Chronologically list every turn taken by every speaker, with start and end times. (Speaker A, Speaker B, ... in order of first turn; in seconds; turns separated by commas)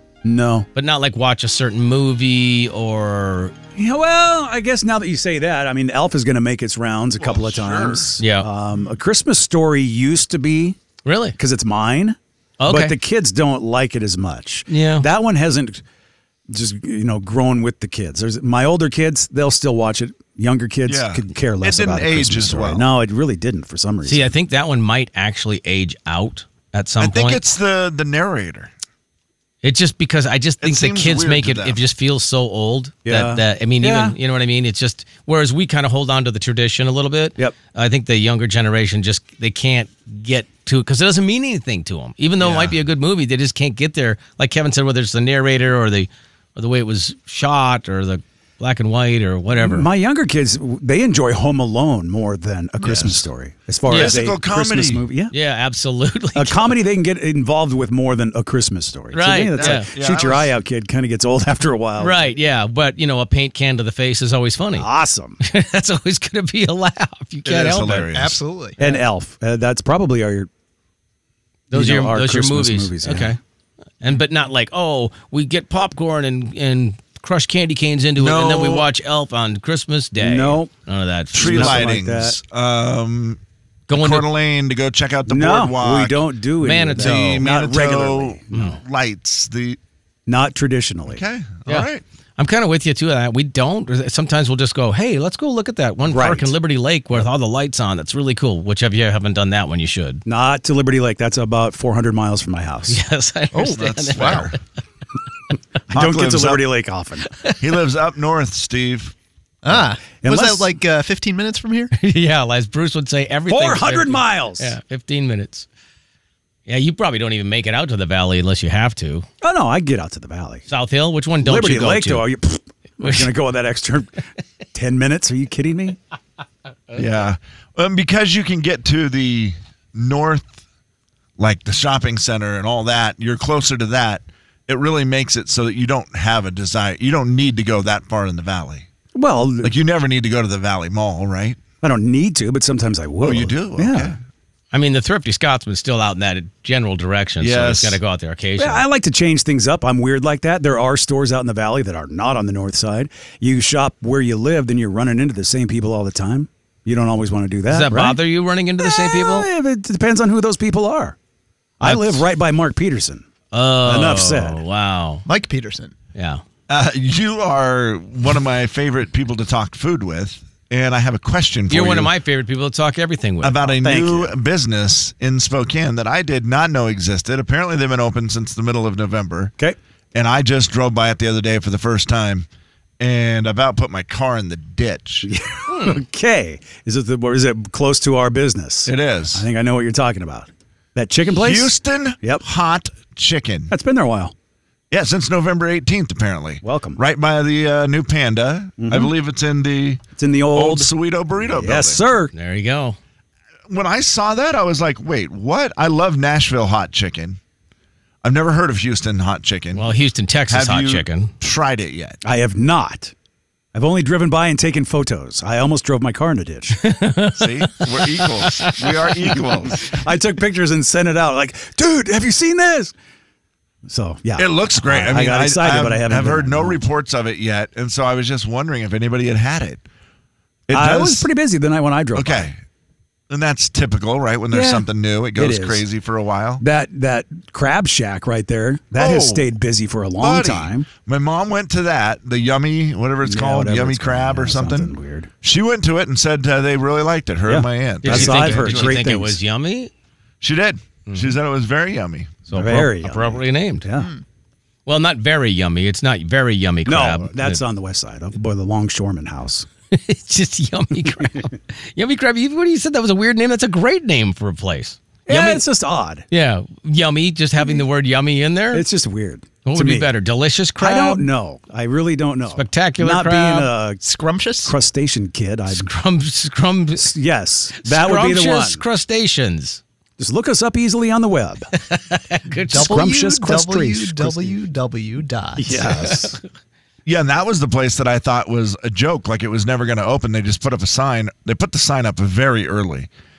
Speaker A: 0.2-0.7, Speaker B: 0.7-3.5, Speaker A: 3.7-10.8, Speaker C: 7.2-8.1, Speaker B: 8.2-8.5, Speaker B: 11.0-11.3, Speaker A: 11.3-15.8, Speaker B: 12.6-12.9, Speaker B: 14.7-15.1, Speaker A: 16.5-24.3, Speaker C: 20.9-22.9, Speaker B: 24.0-27.4, Speaker C: 27.0-28.7, Speaker B: 29.6-49.9, Speaker C: 30.6-31.8, Speaker A: 33.0-34.1, Speaker C: 42.4-42.7, Speaker A: 49.6-55.3, Speaker C: 52.8-53.2, Speaker C: 53.9-55.0, Speaker B: 53.9-54.2, Speaker B: 55.3-56.8, Speaker A: 56.3-62.2, Speaker B: 59.1-59.9, Speaker C: 59.5-60.5, Speaker B: 62.0-64.9, Speaker A: 64.7-65.4, Speaker B: 65.4-68.1, Speaker C: 67.4-68.4, Speaker D: 68.1-68.8, Speaker A: 68.8-70.5, Speaker A: 71.7-73.3, Speaker B: 71.7-73.4, Speaker B: 74.0-81.9, Speaker C: 78.2-78.9, Speaker A: 80.2-80.7, Speaker C: 81.3-83.4, Speaker A: 81.3-82.4, Speaker B: 83.9-84.3, Speaker C: 83.9-86.3, Speaker A: 85.2-88.5, Speaker B: 86.6-87.4, Speaker C: 87.0-89.8, Speaker B: 88.5-88.8, Speaker A: 90.3-91.2, Speaker C: 91.1-92.0, Speaker B: 91.7-100.2, Speaker A: 96.0-96.5, Speaker A: 100.2-103.0, Speaker B: 102.9-104.6, Speaker C: 103.5-104.5, Speaker D: 104.2-104.4, Speaker A: 105.9-107.3, Speaker C: 105.9-106.7, Speaker C: 107.5-109.1, Speaker D: 109.6-111.9, Speaker A: 109.7-110.7, Speaker B: 112.0-115.7, Speaker A: 113.5-114.8, Speaker B: 116.7-119.3, Speaker A: 119.4-120.7, Speaker B: 120.7-122.3, Speaker A: 121.4-124.2, Speaker B: 123.0-123.3, Speaker A: 124.7-126.0, Speaker C: 126.9-130.6, Speaker C: 131.4-138.9, Speaker A: 139.1-139.7, Speaker C: 139.6-141.6, Speaker A: 141.8-144.2, Speaker C: 143.2-144.2, Speaker B: 144.7-148.8, Speaker C: 147.4-148.0, Speaker A: 148.6-158.2, Speaker B: 157.7-159.5, Speaker A: 158.8-161.2, Speaker A: 161.8-163.2, Speaker B: 161.8-162.2, Speaker B: 163.5-165.2, Speaker A: 163.8-164.6, Speaker D: 165.2-165.9, Speaker B: 166.1-166.4, Speaker C: 166.7-172.1, Speaker B: 171.7-173.8, Speaker C: 173.4-179.5, Speaker A: 173.8-174.3, Speaker C: 180.1-182.4, Speaker C: 183.0-185.3, Speaker A: 185.2-192.4, Speaker B: 185.7-186.0, Speaker C: 188.8-189.4, Speaker C: 191.3-193.7, Speaker A: 193.7-194.3, Speaker C: 194.9-202.0, Speaker A: 196.6-197.0, Speaker A: 198.8-199.1, Speaker A: 200.2-200.9, Speaker A: 201.4-202.3, Speaker B: 202.3-203.0, Speaker C: 203.7-207.4, Speaker C: 208.2-209.9, Speaker B: 209.7-211.3, Speaker C: 210.5-212.2, Speaker A: 212.2-213.1, Speaker A: 213.7-216.8, Speaker B: 216.8-219.0, Speaker C: 217.3-219.9, Speaker A: 219.8-222.9, Speaker A: 223.8-226.8, Speaker C: 224.4-229.8, Speaker C: 230.7-231.3, Speaker A: 230.7-232.5, Speaker C: 232.1-232.6, Speaker C: 233.3-236.6, Speaker A: 234.5-234.8, Speaker A: 235.3-235.8, Speaker A: 236.6-240.9, Speaker C: 238.9-239.5, Speaker C: 240.2-249.0, Speaker A: 243.2-245.3, Speaker A: 247.5-249.4, Speaker B: 248.0-249.9, Speaker C: 250.4-252.4, Speaker B: 251.1-251.3, Speaker B: 252.5-253.8, Speaker A: 252.5-254.1, Speaker B: 254.8-257.6, Speaker A: 256.8-259.7, Speaker B: 259.9-265.6, Speaker A: 265.3-266.2, Speaker B: 266.3-268.8, Speaker A: 268.7-270.1, Speaker B: 269.6-271.3, Speaker A: 270.8-274.0, Speaker B: 272.5-273.7, Speaker D: 274.0-274.7, Speaker A: 274.6-275.9, Speaker B: 275.7-277.1, Speaker A: 277.0-278.8, Speaker B: 277.8-279.8, Speaker A: 280.2-281.7, Speaker B: 281.7-283.1, Speaker A: 282.7-284.6, Speaker D: 282.7-285.8, Speaker A: 285.6-286.4, Speaker B: 286.1-286.3, Speaker C: 287.1-293.1